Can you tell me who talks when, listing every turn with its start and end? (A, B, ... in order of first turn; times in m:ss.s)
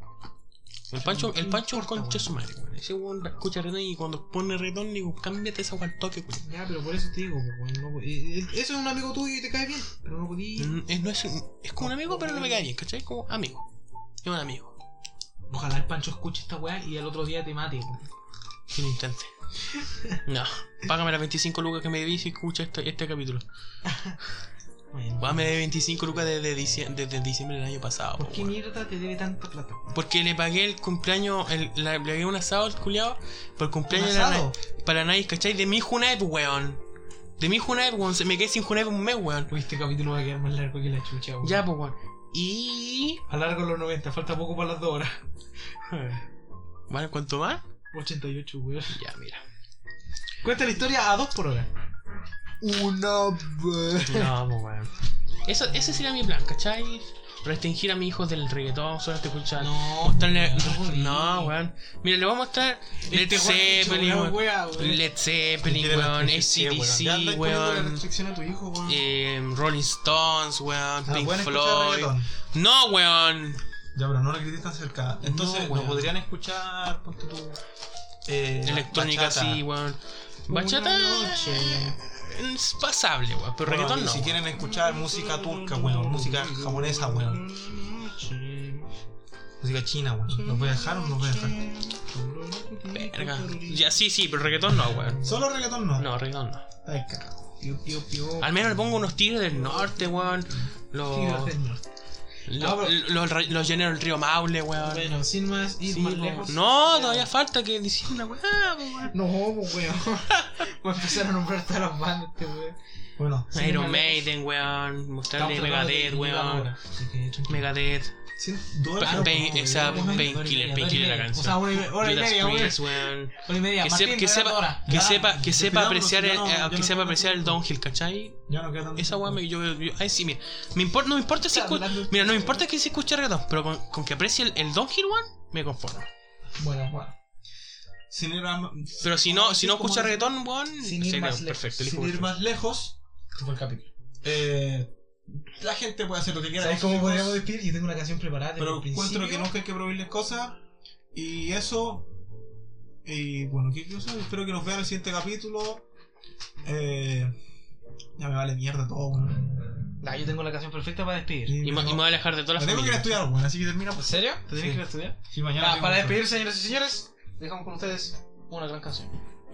0:00.9-0:06.5 A
0:01.0-0:02.4 B
0:06.4-0:10.8 B
0:10.6-0:13.7 A
0:11.8-0:12.7 B
0:14.2-0:14.8 A
0:15.5-0:18.1 B
0:18.7-0:19.3 A
0:19.7-0:20.2 B
0:20.2-0:23.4 A
0:23.9-0:24.2 B
0:24.9-0:25.6 B
0:25.2-0:28.5 A
0:26.2-0:26.9 B
0:28.2-0:29.9 B
0:29.9-0:36.8 A
0:33.9-0:34.6 B
0:37.4-0:39.5 A
0:39.5-0:41.6 B
0:41.4-0:43.2 A
0:43.3-0:45.2 B
0:45.9-0:46.3 A
0:46.9-0:47.6 A
0:47.9-0:49.0 B
0:48.9-0:49.4 A
0:50.4-0:51.7 B
0:52.6-0:54.3 B
0:54.1-0:54.9 A
0:55.4-1:08.0 A
0:59.6-1:01.5 B
1:03.0-1:05.0 B
1:05.6-1:09.0 C
1:08.9-1:13.6 A
1:11.1-1:12.3 C
1:14.0-1:17.6 C
1:15.2-1:16.1 A
1:18.2-1:19.6 C
1:18.6-1:24.4 A
1:20.5-1:22.0 B
1:23.6-1:27.4 C
1:24.6-1:28.9 B
1:29.6-1:31.6 C
1:30.3-1:33.9 B
1:32.9-1:35.3 A
1:34.7-1:35.3 B
1:35.2-1:36.1 C
1:36.0-1:36.7 A
1:36.8-1:37.6 C
1:37.6-1:38.7 B
1:38.4-1:41.6 A
1:39.5-1:41.8 B
1:42.5-1:45.2 A
1:42.6-1:43.0 B
1:44.8-1:47.3 B
1:45.8-1:49.2 A
1:49.1-1:52.8 B
1:50.3-1:50.6 A
1:53.2-1:53.5 C
1:53.5-1:54.3 B
1:53.5-1:56.8 A
1:55.4-1:57.7 B
1:57.5-1:58.2 A
1:58.4-2:00.4 C
1:59.0-2:16.1 A
1:59.0-2:04.9 B
2:04.9-2:07.6 C
2:08.5-2:09.4 C
2:11.4-2:12.6 B
2:16.6-2:17.1 B
2:18.1-2:20.3 C
2:19.0-2:22.3 A
2:20.8-2:21.7 B
2:21.8-2:23.0 C
2:23.4-2:23.9 B
2:24.2-2:27.4 C
2:26.6-2:29.5 B
2:28.6-2:30.6 C
2:31.1-2:32.1 C
2:33.0-2:35.8 C
2:36.6-2:37.3 C
2:38.2-2:39.6 C
2:40.0-2:41.6 B
2:41.4-2:46.2 C
2:41.6-2:43.2 A
2:44.0-2:49.2 B